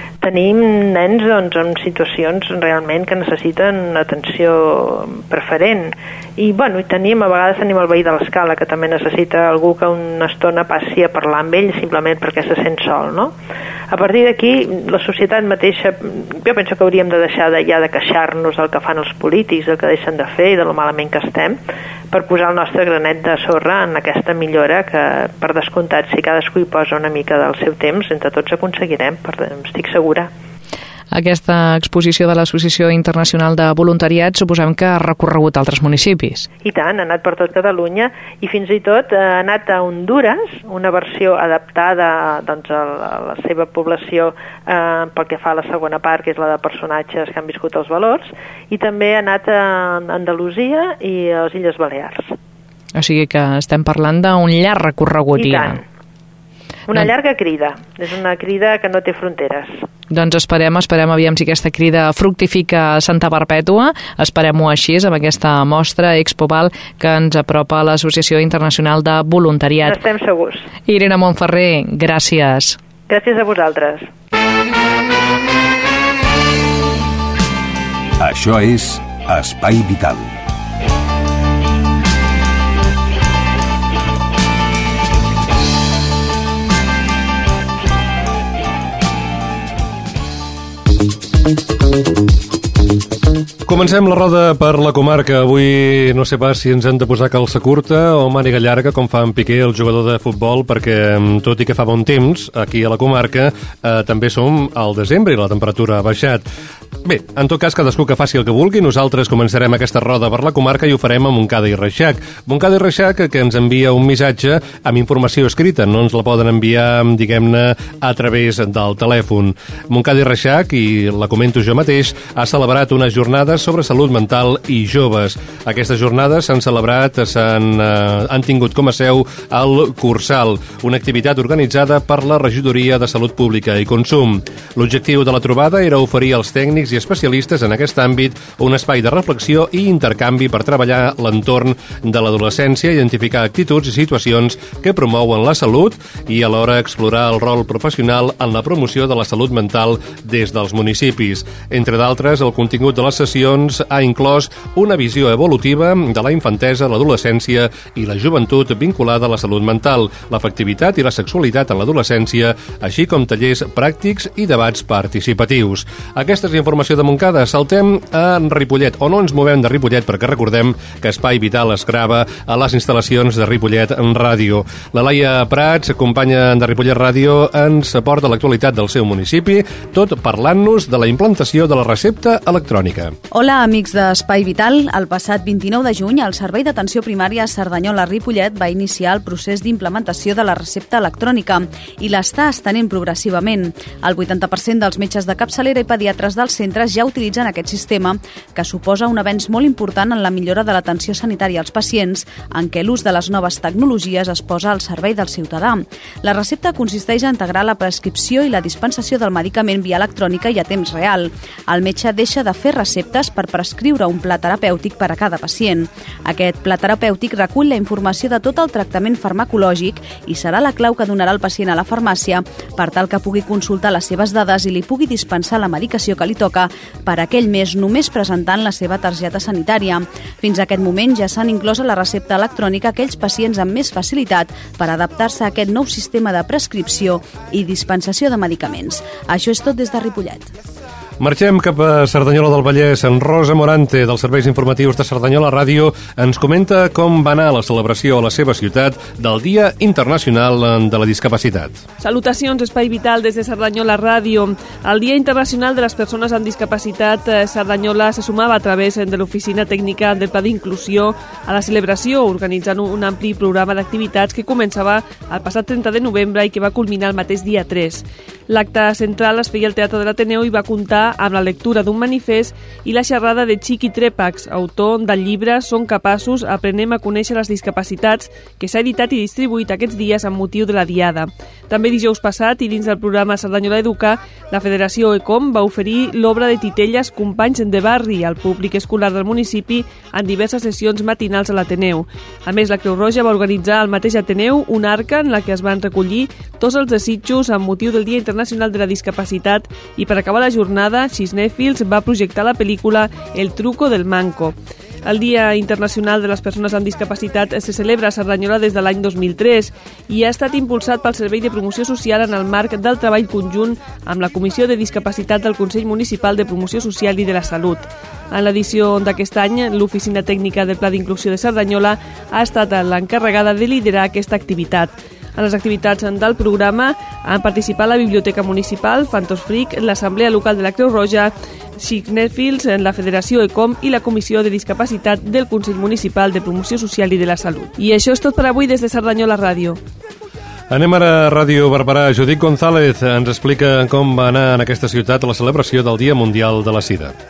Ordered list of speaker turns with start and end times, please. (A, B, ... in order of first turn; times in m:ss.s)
0:00.2-0:13.3 A
0:13.9-0:21.6 A
0:22.1-0:30.3 A
0:31.1-0:36.5 B
0:36.6-0:52.3 A
0:53.0-0:55.8 B
0:55.4-0:55.8 A
0:56.9-0:59.8 A
1:00.1-1:10.0 B
1:09.8-1:10.7 A
1:10.9-1:12.8 B
1:13.1-1:14.1 A
1:18.2-1:20.3 C
1:33.7-1:46.5 D
1:47.0-3:03.2 D
3:03.3-4:00.5 E
4:01.2-4:11.8 D
4:12.0-5:39.8 F
5:40.7-5:47.1 D